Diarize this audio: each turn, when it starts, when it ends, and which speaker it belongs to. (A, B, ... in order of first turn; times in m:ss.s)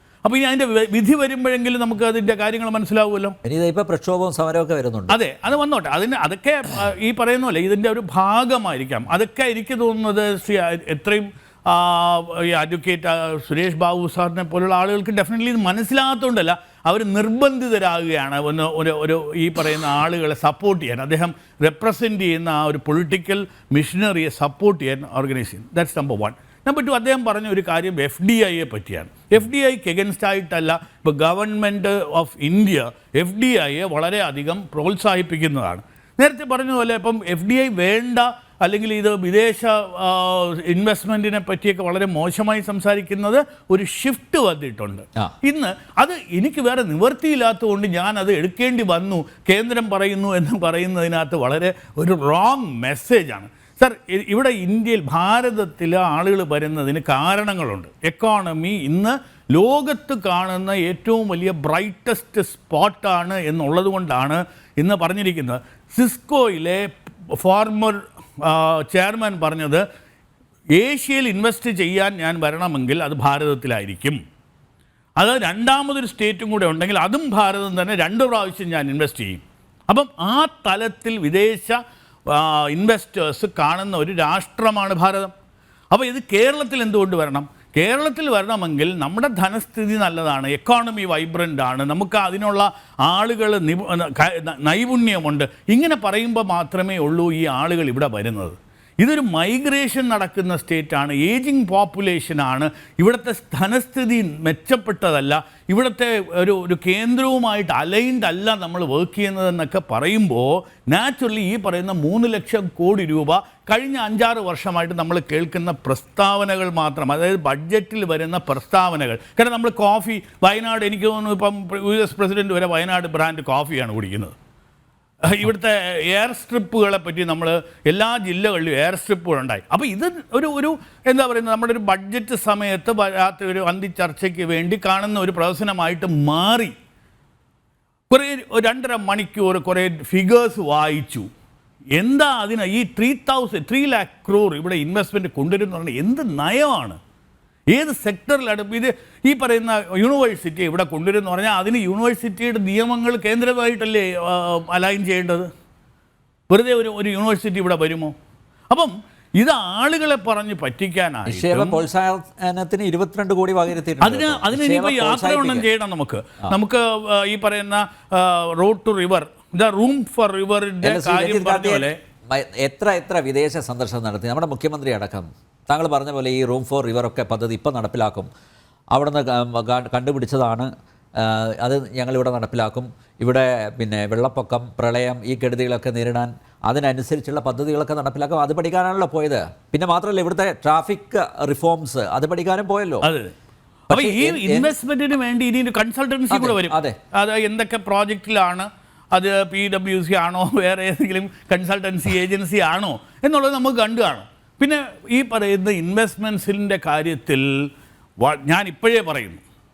0:00.2-0:03.4 A
0:03.4-0:05.1 B
0:05.1-1:09.8 A
1:10.7-1:14.2 A
1:15.2-1:25.3 A
1:25.9-2:04.3 A
2:05.2-2:16.7 A
2:18.1-2:21.3 A
2:22.0-2:27.0 A
2:27.7-2:35.5 A
2:36.5-2:38.1 A
2:38.7-2:41.8 A
2:41.3-2:45.6 B
2:44.0-2:52.0 A
2:50.8-2:58.3 B
2:58.9-3:13.1 B
3:13.0-3:13.3 A
3:13.9-3:14.7 B
3:13.9-3:27.5 A
3:16.3-3:17.0 B
3:28.2-3:29.4 A